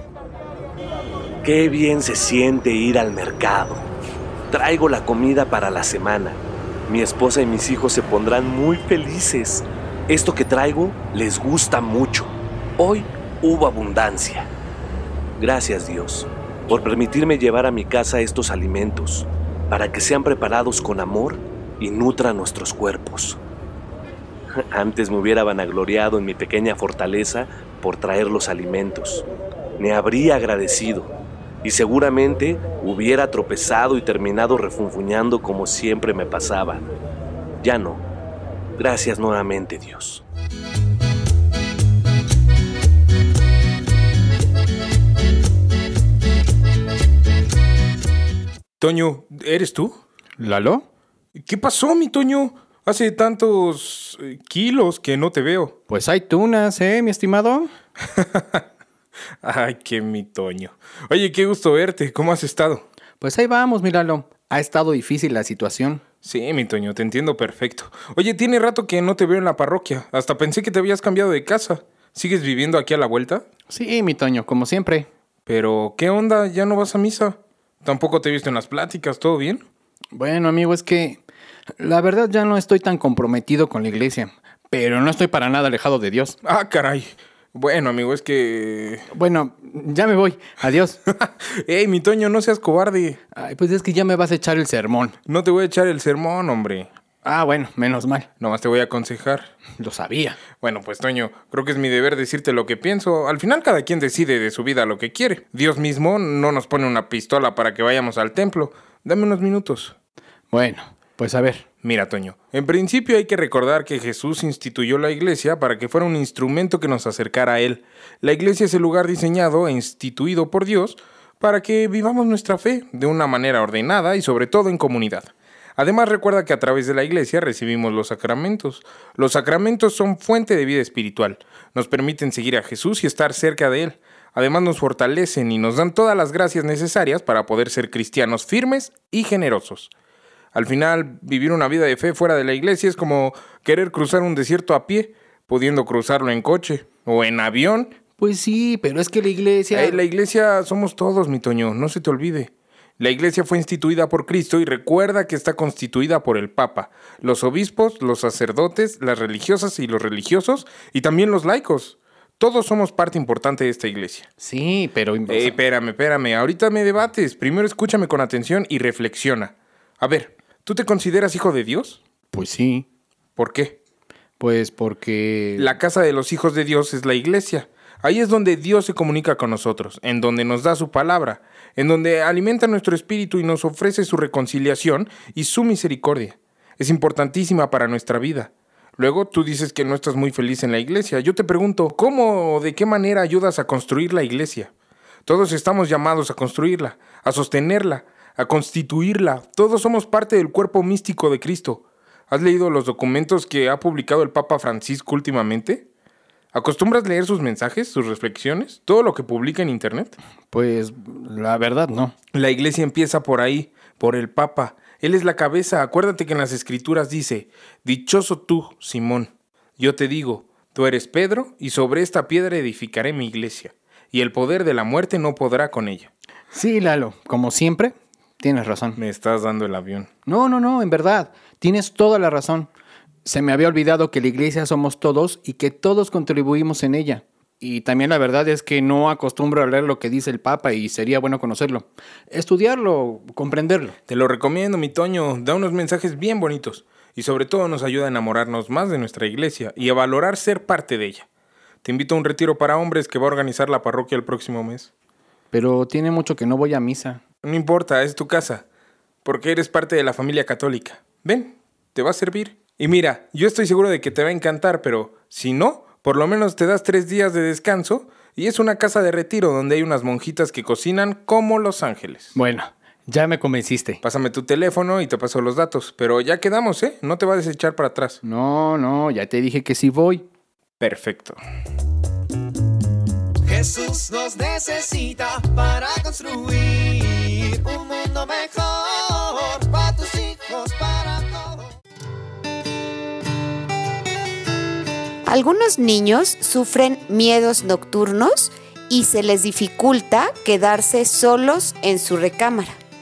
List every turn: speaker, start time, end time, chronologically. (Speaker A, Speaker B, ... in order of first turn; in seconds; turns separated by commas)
Speaker A: 1.5-3.9, Speaker A: 4.5-14.5, Speaker A: 15.4-23.4, Speaker A: 24.7-29.2, Speaker A: 29.8-31.1, Speaker A: 31.6-36.8, Speaker A: 37.6-38.0, Speaker A: 38.8-40.2, Speaker B: 48.8-50.0, Speaker C: 50.4-50.9, Speaker B: 51.4-55.8, Speaker C: 55.9-57.7, Speaker B: 58.2-58.6, Speaker B: 59.4-62.9, Speaker C: 63.2-66.0, Speaker B: 66.2-73.5, Speaker C: 73.7-75.1, Speaker B: 75.5-79.7, Speaker C: 80.1-81.2, Speaker C: 81.8-86.4, Speaker B: 86.4-89.1, Speaker C: 89.1-91.0, Speaker B: 91.1-93.2, Speaker C: 93.4-95.2, Speaker B: 95.3-96.9, Speaker C: 97.2-98.3, Speaker B: 98.4-99.5, Speaker C: 99.8-100.4, Speaker B: 100.6-110.0, Speaker C: 110.5-111.7, Speaker B: 111.8-139.9, Speaker B: 140.5-147.9, Speaker C: 148.2-150.0, Speaker B: 149.7-164.3, Speaker C: 164.4-165.6, Speaker B: 165.3-172.0, Speaker C: 172.3-172.9, Speaker B: 173.4-173.8, Speaker C: 174.4-175.8, Speaker B: 175.6-194.7, Speaker B: 195.3-205.9, Speaker B: 206.5-210.2, Speaker C: 210.5-212.2, Speaker B: 212.3-226.1, Speaker C: 226.5-229.0, Speaker B: 229.0-230.1, Speaker C: 230.3-232.7, Speaker C: 233.2-244.0, Speaker B: 244.1-251.3, Speaker B: 251.8-254.9, Speaker C: 255.5-257.2, Speaker B: 257.4-258.7, Speaker B: 259.2-272.3, Speaker C: 272.3-274.0, Speaker B: 274.0-278.2, Speaker C: 278.2-280.3, Speaker B: 280.8-281.4, Speaker D: 283.5-291.4, Speaker E: 295.3-302.8